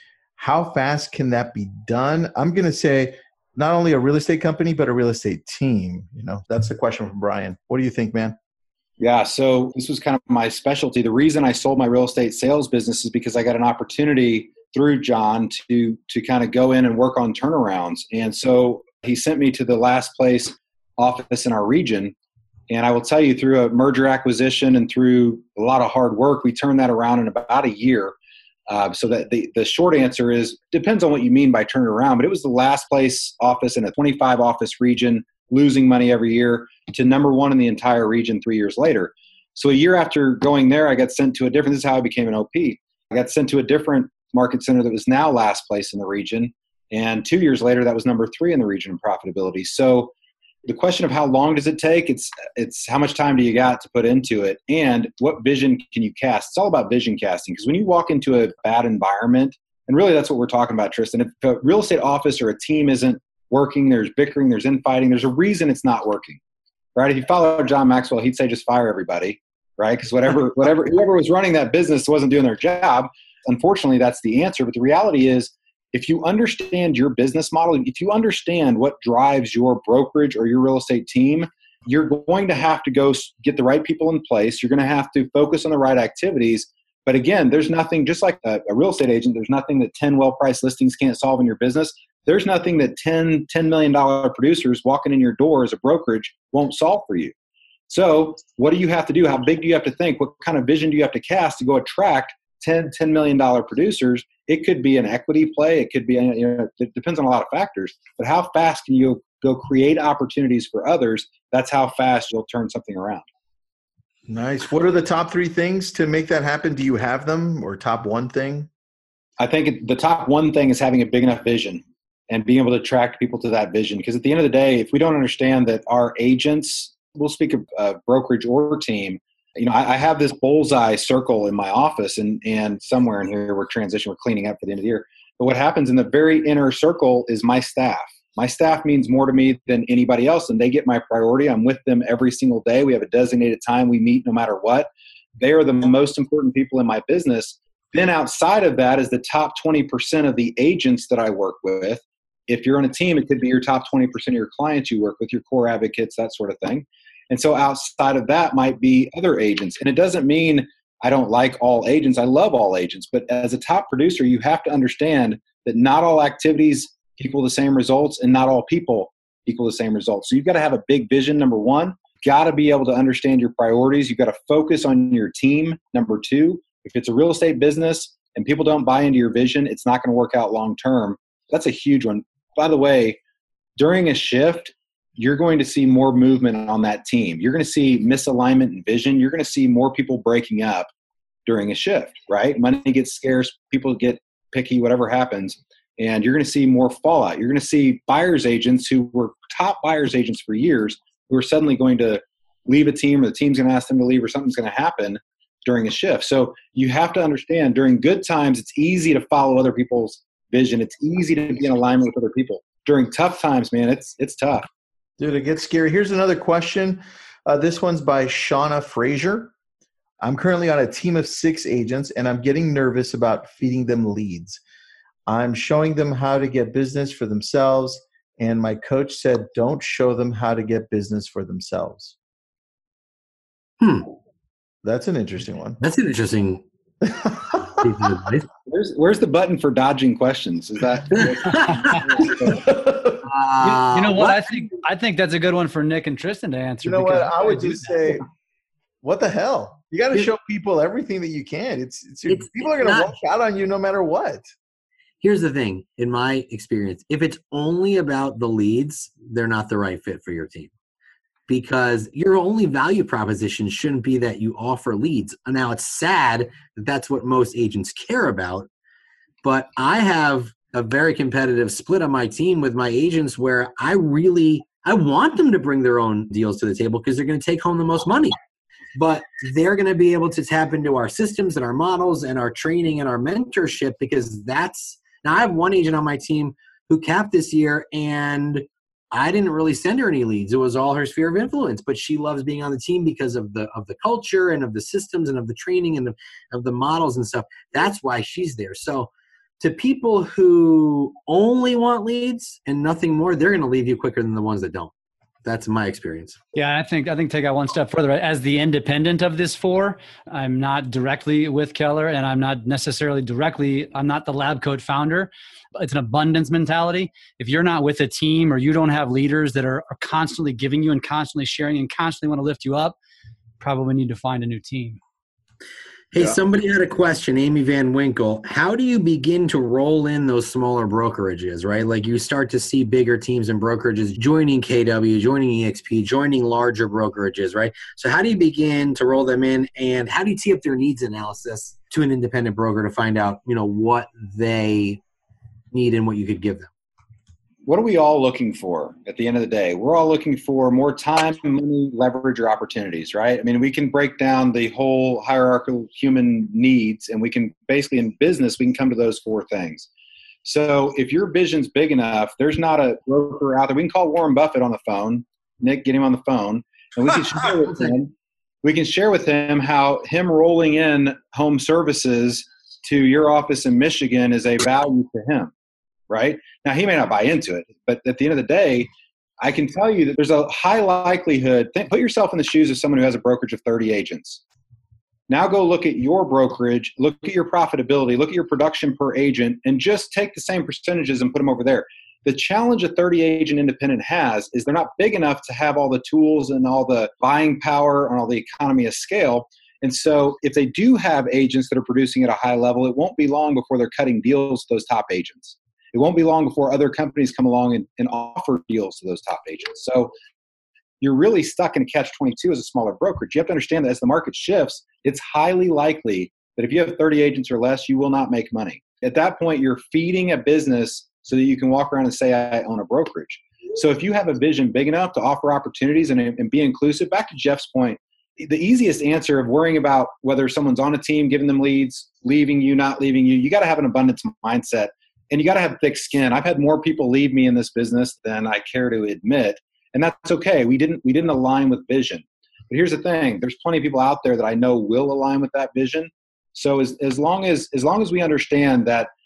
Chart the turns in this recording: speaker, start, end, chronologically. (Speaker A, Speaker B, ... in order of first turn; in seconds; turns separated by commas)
Speaker A: 0.4-8.4, Speaker B: 9.0-22.1, Speaker B: 22.7-28.1, Speaker B: 28.7-50.1, Speaker B: 50.7-66.4, Speaker B: 67.0-97.3, Speaker B: 97.9-113.2, Speaker A: 114.3-118.7, Speaker B: 119.4-183.2, Speaker B: 183.8-190.9, Speaker B: 191.5-214.7, Speaker A: 215.2-219.5, Speaker A: 220.2-224.6, Speaker A: 225.3-232.2, Speaker C: 233.8-234.1, Speaker A: 234.8-235.8, Speaker C: 235.8-236.7, Speaker A: 237.0-238.1, Speaker C: 237.8-238.5, Speaker B: 238.7-242.7, Speaker C: 241.1-242.0, Speaker A: 242.3-243.2, Speaker C: 243.2-244.8, Speaker D: 243.6-248.2, Speaker A: 246.8-248.2, Speaker A: 249.0-254.5, Speaker C: 252.3-253.2, Speaker C: 255.2-260.7, Speaker C: 261.5-268.7, Speaker C: 269.4-278.4, Speaker C: 279.0-304.9, Speaker C: 305.4-306.4, Speaker D: 306.5-323.0, Speaker D: 323.6-325.0, Speaker C: 326.1-345.0, Speaker C: 345.7-346.7, Speaker B: 347.7-359.9, Speaker B: 360.4-368.1, Speaker B: 368.6-375.5, Speaker B: 376.1-384.4, Speaker B: 385.3-410.1, Speaker B: 411.0-449.1